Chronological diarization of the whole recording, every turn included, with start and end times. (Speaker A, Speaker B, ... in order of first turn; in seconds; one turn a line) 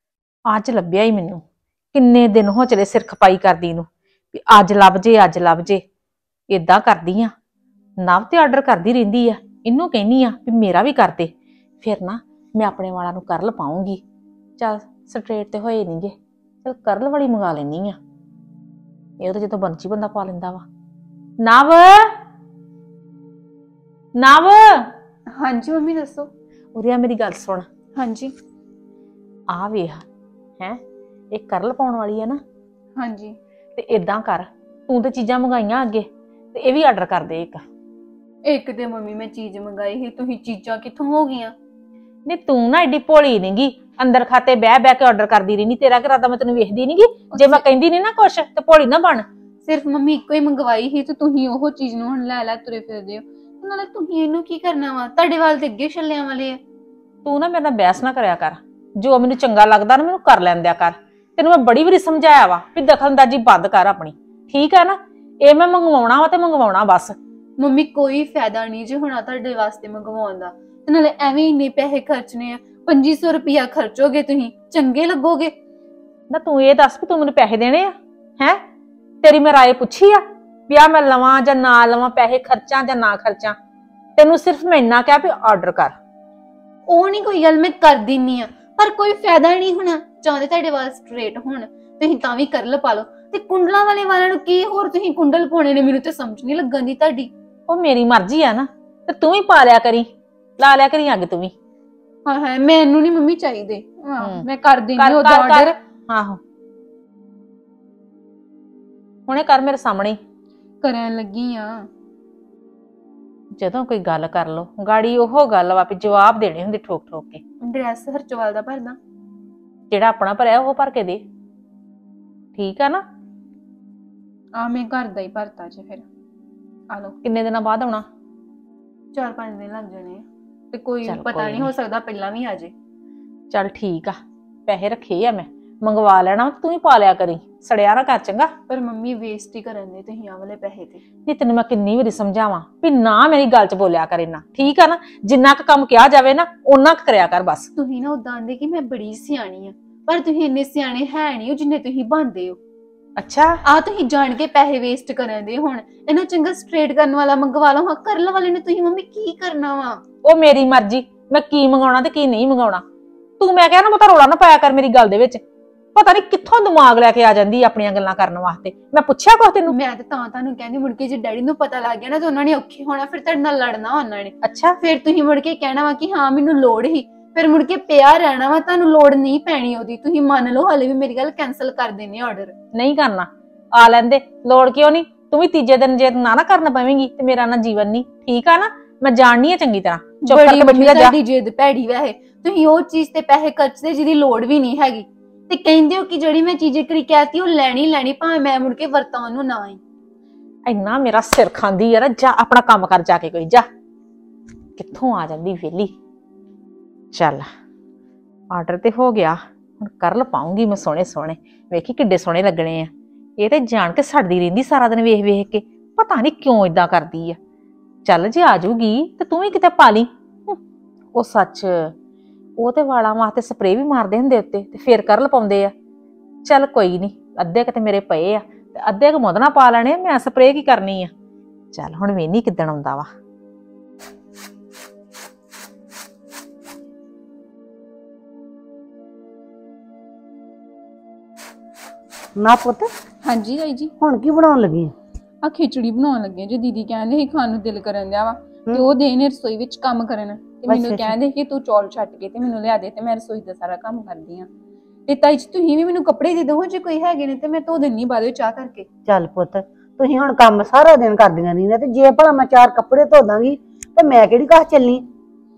Speaker A: 0.5-1.4
Speaker A: 1.9-5.8
Speaker A: 6.5-7.3
Speaker A: 8.0-14.0
Speaker A: 14.6-18.0
Speaker A: 19.2-20.6
Speaker A: 21.4-22.1
Speaker A: 24.2-24.9
Speaker B: 25.3-26.3
Speaker A: 26.7-27.7
Speaker B: 27.9-28.3
Speaker A: 29.5-30.0
Speaker A: 31.3-32.4
Speaker B: 33.0-33.4
Speaker A: 33.8-37.6
Speaker B: 38.4-41.5
Speaker A: 42.2-49.2
Speaker B: 47.3-47.6
Speaker B: 49.6-56.6
Speaker A: 57.2-67.2
Speaker B: 67.6-75.5
Speaker A: 76.3-78.6
Speaker A: 79.2-83.5
Speaker A: 84.2-85.9
Speaker B: 86.9-97.3
Speaker A: 97.7-101.5
Speaker B: 102.2-105.8
Speaker A: 105.0-106.4
Speaker A: 109.3-110.2
Speaker B: 110.8-111.9
Speaker A: 113.6-117.4
Speaker B: 117.6-119.0
Speaker A: 119.9-121.2
Speaker A: 122.5-123.0
Speaker B: 124.5-126.0
Speaker A: 127.2-128.1
Speaker B: 129.1-132.7
Speaker A: 131.1-131.7
Speaker A: 133.5-138.5
Speaker B: 138.7-141.0
Speaker A: 141.2-147.7
Speaker B: 147.8-152.6
Speaker A: 153.2-153.6
Speaker B: 153.6-160.0
Speaker A: 160.2-162.8
Speaker A: 163.4-165.4
Speaker A: 165.9-169.7
Speaker B: 169.7-182.5
Speaker A: 174.4-174.8
Speaker A: 182.7-191.2
Speaker B: 190.2-199.8
Speaker A: 200.7-203.7
Speaker A: 204.8-205.9
Speaker A: 207.1-207.5
Speaker A: 208.5-217.4
Speaker A: 218.0-220.6
Speaker A: 221.1-221.9
Speaker A: 222.6-225.7
Speaker A: 226.4-231.1
Speaker A: 231.7-233.1
Speaker C: 242.4-242.9
Speaker B: 243.3-243.9
Speaker C: 244.0-244.9
Speaker B: 245.4-254.5
Speaker C: 250.7-251.1
Speaker B: 255.1-258.9
Speaker C: 259.1-265.1